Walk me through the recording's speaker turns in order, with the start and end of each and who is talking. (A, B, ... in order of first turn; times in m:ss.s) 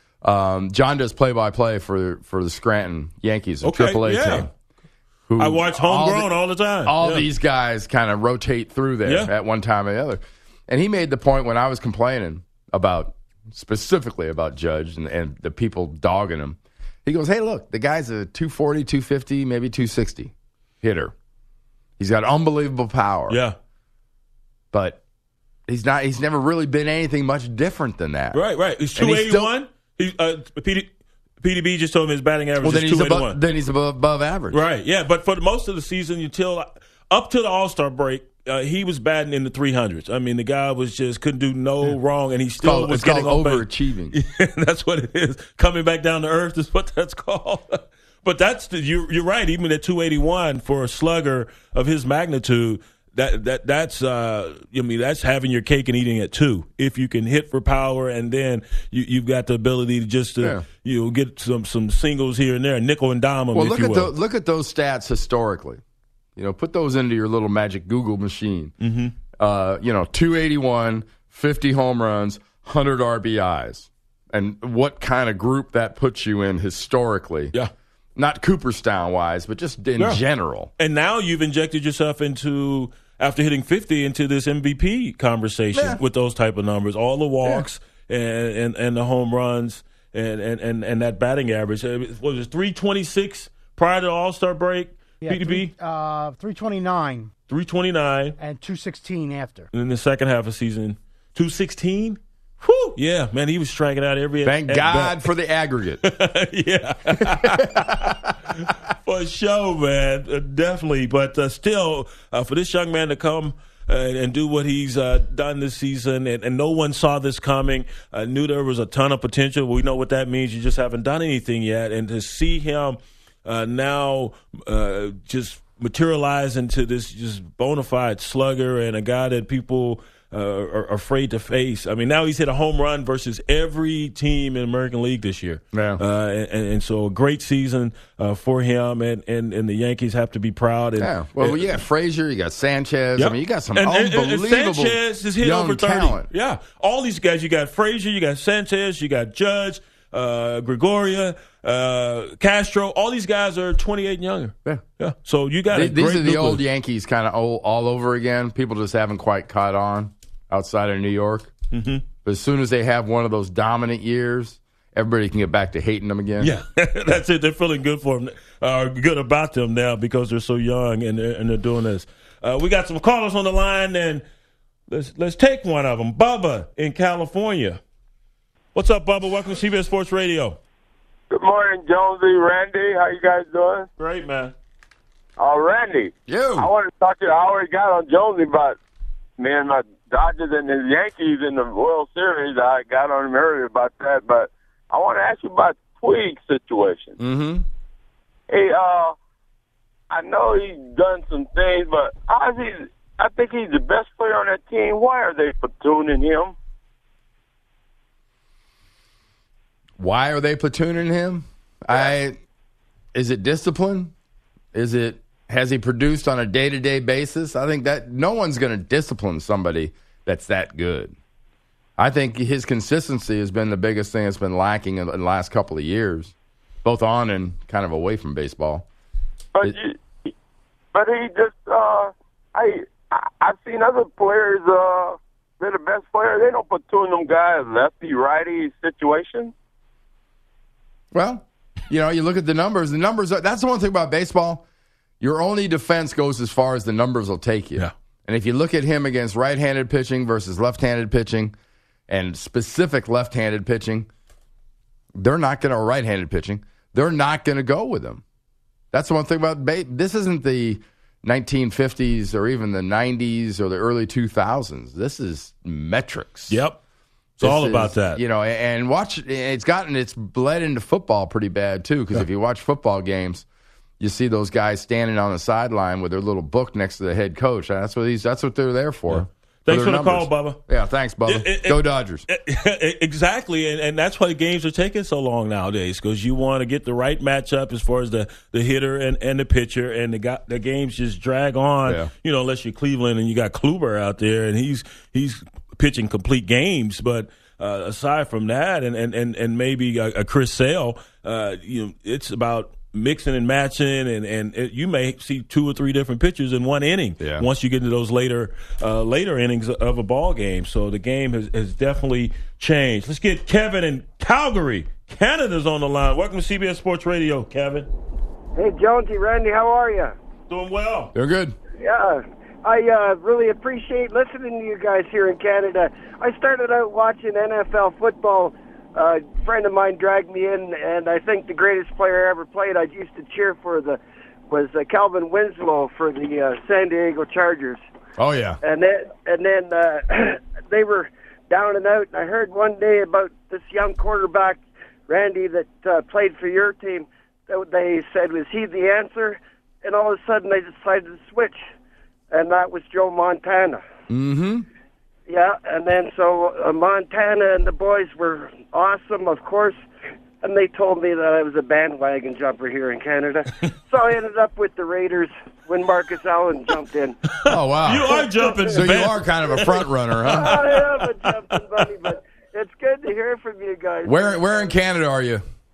0:00.2-0:04.5 A
0:03.6-0:04.5 B
0:05.3-0:06.3 A
0:05.4-0:07.2 B
0:06.8-0:21.1 A
0:09.0-0:09.3 B
0:22.0-0:23.4 A
0:23.3-0:23.5 B
0:24.7-0:25.0 A
0:25.7-0:28.4 A
0:28.3-0:30.9 B
0:28.9-0:29.5 A
0:31.4-0:33.4 B
0:32.6-0:34.6 A
0:34.5-1:04.1 B
0:42.6-0:44.1 A
1:03.5-1:05.8 A
1:06.4-1:08.7 A
1:08.8-1:09.1 B
1:09.4-1:17.5 A
1:18.2-1:20.7 A
1:20.8-1:35.7 B
1:25.7-1:26.0 A
1:35.2-1:37.3 C
1:37.5-1:38.4 B
1:38.4-1:39.6 C
1:39.7-1:45.2 B
1:44.4-1:46.0 A
1:46.0-2:21.7 B
1:47.2-1:48.1 A
2:15.7-2:16.0 A
2:21.0-2:26.3 A
2:23.2-2:36.6 B
2:35.7-2:41.5 A
2:41.7-2:42.0 B
2:42.2-2:46.5 A
2:46.4-2:54.2 B
2:54.9-2:57.8 B
2:58.7-3:00.6 B
3:01.3-3:03.8 D
3:04.0-3:04.5 B
3:05.4-3:08.8 D
3:06.3-3:06.7 A
3:09.4-3:17.2 D
3:17.2-3:17.6 A
3:18.5-3:19.2 D
3:20.1-3:26.5 D
3:30.0-3:32.4 A
3:33.1-3:34.1 A
3:34.7-3:41.1 A
3:42.0-3:46.3 A
3:46.8-3:48.9 A
3:49.5-3:50.3 D
3:50.9-3:59.5 D
4:01.1-4:04.6 A
4:05.2-4:11.5 A
4:12.1-4:14.1 A
4:15.1-4:18.2 A
4:18.9-4:26.6 A
4:26.5-4:26.8 B
4:27.4-4:28.2 B
4:27.4-4:33.4 A
4:34.0-4:42.2 A
4:39.1-4:40.6 B
4:41.2-5:17.9 B
5:07.2-5:07.4 A
5:18.6-5:20.1 E
5:20.5-5:21.1 B
5:21.1-5:21.6 A
5:21.8-5:37.8 E
5:38.2-5:38.6 A
5:38.6-5:51.6 E
5:52.3-5:53.8 E
5:54.1-5:54.6 A
5:55.3-5:59.8 E
6:00.4-6:07.2 E
6:07.4-6:10.8 B
6:07.5-6:10.7 A
6:08.4-6:08.8 E
6:10.2-6:14.7 E
6:14.0-6:15.4 A